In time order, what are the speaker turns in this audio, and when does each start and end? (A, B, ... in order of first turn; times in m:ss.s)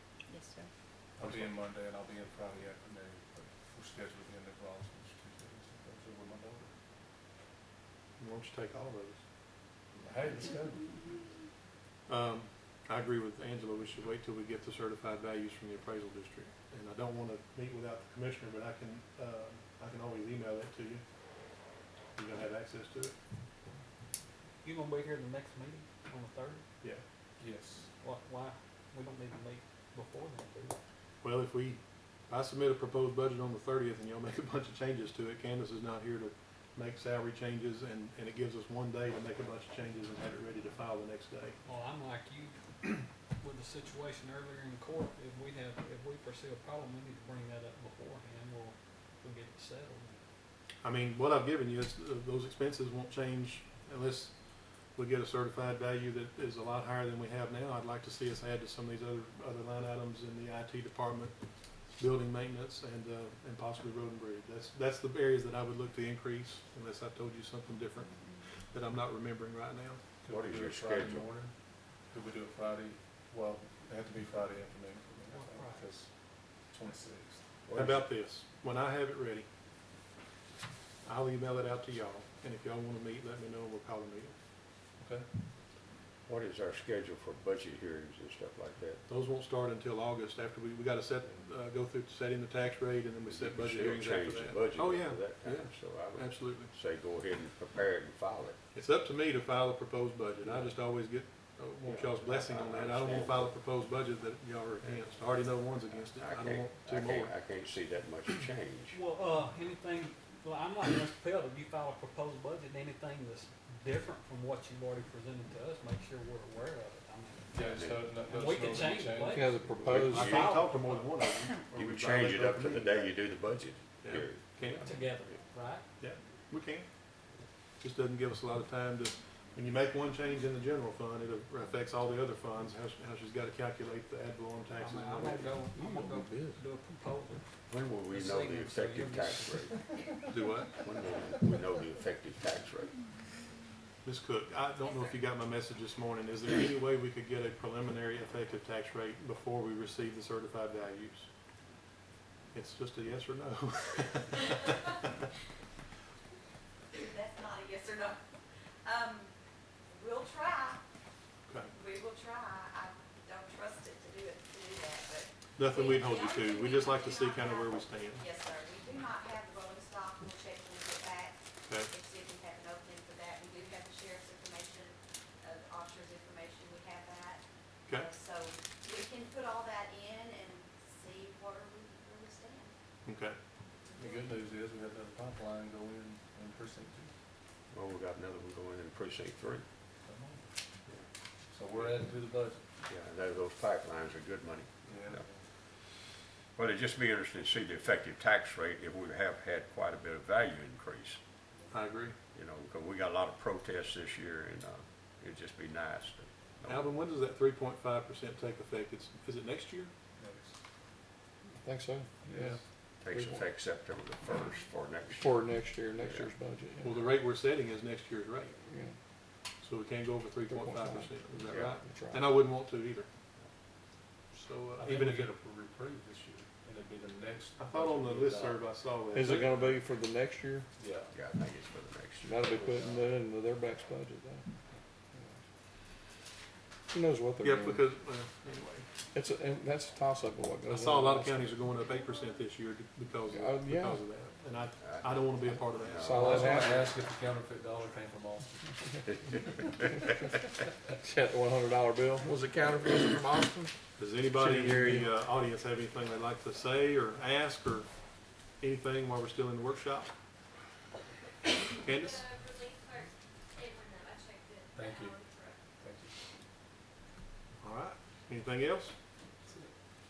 0:00.3-0:00.7 A
0:01.2-0:06.7 B
0:01.2-0:01.6 C
0:08.2-0:09.2 C
0:09.9-0:11.0 B
0:12.1-0:21.0 C
0:22.2-0:23.1 C
0:24.6-0:26.6 D
0:27.4-0:27.9 B
0:28.0-0:30.8 D
0:31.2-0:41.6 C
0:41.6-0:50.2 D
0:50.8-0:54.3 C
0:55.0-1:01.3 C
1:01.9-1:10.0 C
1:10.2-1:11.5 B
1:10.3-1:11.3 E
1:12.1-1:16.1 B
1:15.3-1:15.9 D
1:16.7-1:17.4 B
1:17.7-1:18.0 E
1:17.7-1:19.5 C
1:21.0-1:24.3 C
1:25.0-1:25.3 B
1:26.3-1:29.0 E
1:29.1-1:36.7 C
1:33.3-1:38.6 E
1:38.7-1:47.3 C
1:40.4-1:40.7 E
1:41.8-1:43.5 E
1:46.0-1:49.0 E
1:48.9-1:57.5 D
1:57.5-2:00.0 B
1:57.6-1:58.1 E
1:58.3-1:59.6 D
1:59.3-2:00.5 F
1:59.9-2:03.2 C
2:00.0-2:00.4 E
2:00.2-2:01.0 D
2:01.7-2:04.8 E
2:04.0-2:05.0 C
2:04.8-2:05.8 D
2:06.0-2:06.9 C
2:07.8-2:15.6 C
2:14.8-2:17.4 D
2:15.8-2:16.6 F
2:17.7-2:19.7 E
2:18.1-2:19.7 D
2:20.3-2:20.8 C
2:20.8-2:23.0 E
2:24.0-2:31.3 C
2:32.5-2:35.1 C
2:36.9-2:38.2 G
2:38.8-2:39.3 G
2:39.9-2:40.8 G
2:41.7-2:51.4 G
2:45.6-2:48.2 C
2:51.9-3:02.7 G
2:57.9-2:58.1 C
3:03.0-3:03.4 C
3:03.9-3:04.2 G
3:04.0-3:07.1 B
3:07.7-3:09.6 E
3:10.0-3:10.5 B
3:11.5-3:12.6 B
3:12.8-3:15.2 E
3:14.8-3:15.4 B
3:16.6-3:21.2 E
3:21.7-3:22.1 C
3:22.3-3:26.9 E
3:26.7-3:29.9 C
3:30.2-3:30.6 B
3:31.6-3:33.4 F
3:32.2-3:32.6 B
3:33.0-3:35.4 E
3:35.2-3:37.0 F
3:36.0-3:36.3 E
3:36.8-3:38.5 C
3:38.6-3:39.0 F
3:39.6-3:43.1 C
3:40.5-3:42.3 F
3:41.5-3:41.7 E
3:44.3-3:45.3 C
3:44.7-3:48.7 B
3:47.6-3:49.6 C
3:49.1-3:50.7 F
3:50.8-3:51.2 B
3:51.1-3:52.9 E
3:52.2-3:54.4 F
3:52.7-3:53.0 B
3:56.9-3:57.8 F
3:57.4-3:58.9 C
3:59.1-4:01.5 F
4:00.6-4:06.3 C
4:03.3-4:04.1 F
4:04.8-4:06.3 E
4:05.4-4:06.8 F
4:06.1-4:08.8 B
4:09.2-4:09.9 E
4:10.9-4:13.7 F
4:14.0-4:17.9 C
4:14.3-4:15.1 F
4:18.6-4:20.1 C
4:21.8-4:22.3 C
4:22.0-4:25.6 A
4:24.7-4:25.2 B
4:25.8-4:26.1 B
4:27.6-4:28.9 C